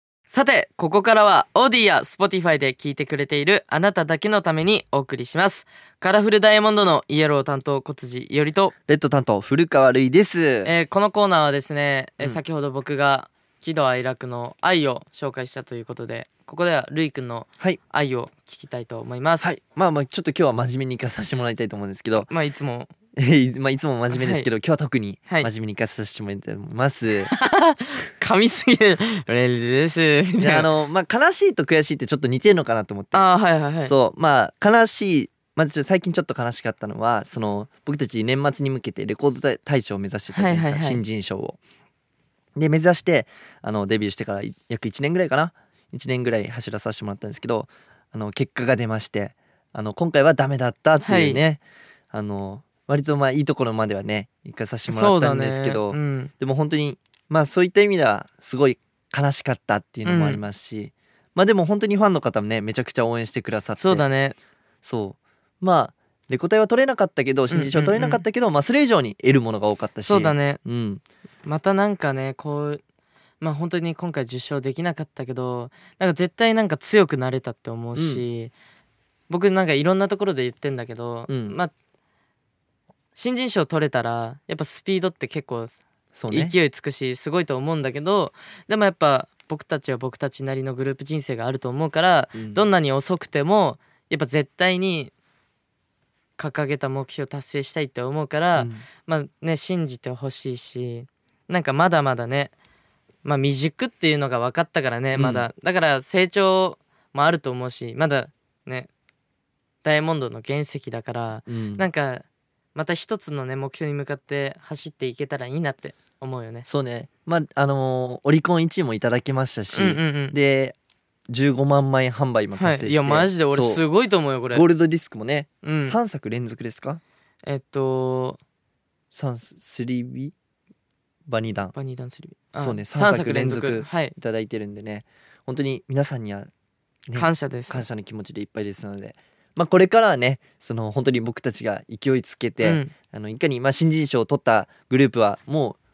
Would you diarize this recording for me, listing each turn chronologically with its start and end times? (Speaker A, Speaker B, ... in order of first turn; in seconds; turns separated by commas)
Speaker A: 0.3-8.7, Speaker B: 8.9-10.7, Speaker A: 10.6-19.5, Speaker B: 19.4-22.3, Speaker A: 22.3-22.9, Speaker B: 23.2-27.3, Speaker A: 24.1-24.5, Speaker A: 27.2-30.7, Speaker B: 30.4-33.3, Speaker A: 33.1-33.9, Speaker B: 33.8-41.6, Speaker A: 40.3-41.0, Speaker B: 42.5-51.6, Speaker A: 51.0-51.4, Speaker B: 52.1-64.0, Speaker A: 54.9-56.3, Speaker A: 60.0-60.4, Speaker A: 63.8-64.3, Speaker B: 64.8-71.0, Speaker A: 67.5-68.2, Speaker A: 70.0-70.6, Speaker A: 71.4-72.8, Speaker A: 73.4-78.5, Speaker B: 77.9-78.2, Speaker A: 79.3-81.7, Speaker B: 81.3-81.6, Speaker A: 83.2-95.1, Speaker B: 86.1-86.5, Speaker B: 92.3-92.7, Speaker A: 96.4-102.5, Speaker B: 98.5-98.8, Speaker A: 103.2-108.9, Speaker B: 105.1-105.5, Speaker A: 109.8-116.7, Speaker B: 111.5-111.8, Speaker B: 116.7-120.8, Speaker A: 119.7-120.3, Speaker B: 121.3-123.8, Speaker A: 122.5-124.7, Speaker B: 124.5-127.0, Speaker A: 125.6-126.0, Speaker A: 127.4-128.4, Speaker B: 129.1-130.3, Speaker B: 131.3-131.7, Speaker A: 131.7-134.1, Speaker B: 132.6-136.5, Speaker B: 137.1-145.8, Speaker A: 137.1-137.8, Speaker A: 142.6-142.9